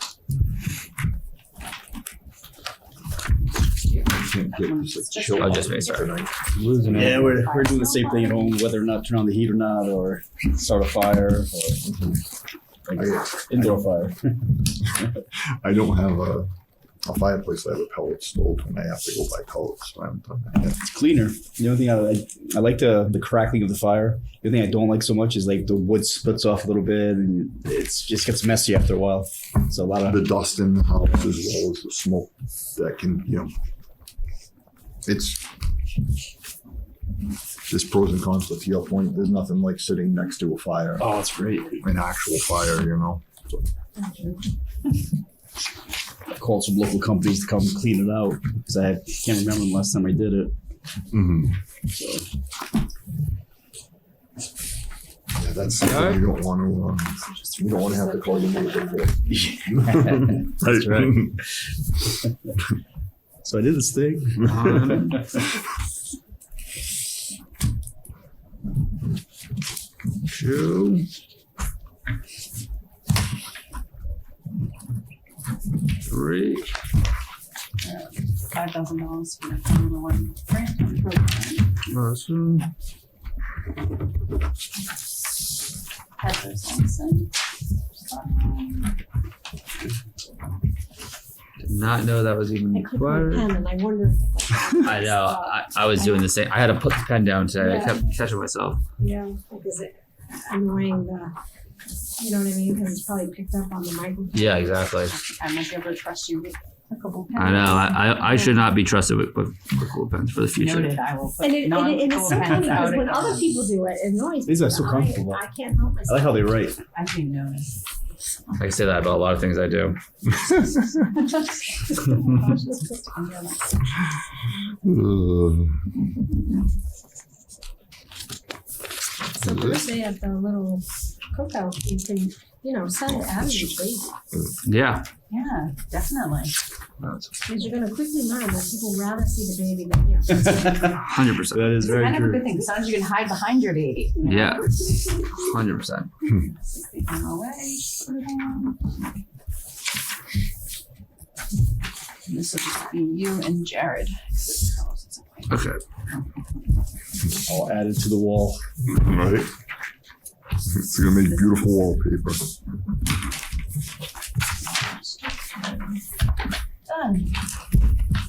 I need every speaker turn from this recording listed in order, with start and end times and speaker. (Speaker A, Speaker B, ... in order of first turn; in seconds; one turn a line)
Speaker A: 4.0-6.4
Speaker B: 4.6-5.9
Speaker C: 5.3-7.3
Speaker B: 6.7-8.6
Speaker D: 6.9-11.8
Speaker A: 11.8-12.2
Speaker D: 12.8-14.6
Speaker A: 13.0-13.8
Speaker A: 15.6-16.5
Speaker A: 17.0-20.8
Speaker D: 20.7-30.3
Speaker A: 30.0-33.5
Speaker A: 35.0-35.4
Speaker A: 37.7-41.1
Speaker D: 41.0-41.8
Speaker A: 41.8-43.2
Speaker B: 44.0-44.4
Speaker D: 46.3-50.5
Speaker A: 51.1-51.6
Speaker D: 51.9-52.2
Speaker A: 55.3-59.2
Speaker C: 55.8-56.2
Speaker B: 57.2-60.2
Speaker D: 59.4-61.3
Speaker A: 59.9-61.4
Speaker D: 63.4-65.4
Speaker C: 64.4-65.3
Speaker C: 70.3-71.0
Speaker C: 76.1-76.7
Speaker B: 77.8-81.7
Speaker C: 81.9-82.7
Speaker B: 86.2-87.3
Speaker B: 87.9-88.9
Speaker C: 91.6-93.5
Speaker E: 92.7-96.3
Speaker C: 94.8-98.8
Speaker E: 97.6-98.0
Speaker E: 99.0-101.3
Speaker E: 102.2-104.8
Speaker C: 104.3-105.1
Speaker B: 105.1-107.8
Speaker C: 107.3-111.0
Speaker E: 107.7-108.5
Speaker B: 110.5-113.5
Speaker E: 111.4-116.5
Speaker D: 114.5-115.4
Speaker D: 116.1-116.8
Speaker B: 116.9-117.7
Speaker C: 118.6-120.0
Speaker B: 121.1-123.8
Speaker E: 122.5-122.8
Speaker A: 124.8-125.7
Speaker E: 129.3-134.1
Speaker A: 129.4-129.9
Speaker A: 133.1-133.7
Speaker C: 134.6-135.0
Speaker B: 135.3-136.5
Speaker C: 137.0-137.5
Speaker E: 137.4-140.9
Speaker D: 140.4-142.5
Speaker C: 141.0-141.8
Speaker B: 141.8-144.8
Speaker C: 144.2-144.8
Speaker C: 145.3-146.1
Speaker B: 146.2-148.8
Speaker B: 152.2-155.6
Speaker C: 155.5-155.8
Speaker D: 157.4-158.6
Speaker A: 158.9-159.5
Speaker A: 160.7-162.5
Speaker B: 161.3-161.7
Speaker B: 164.8-165.1
Speaker B: 166.9-167.3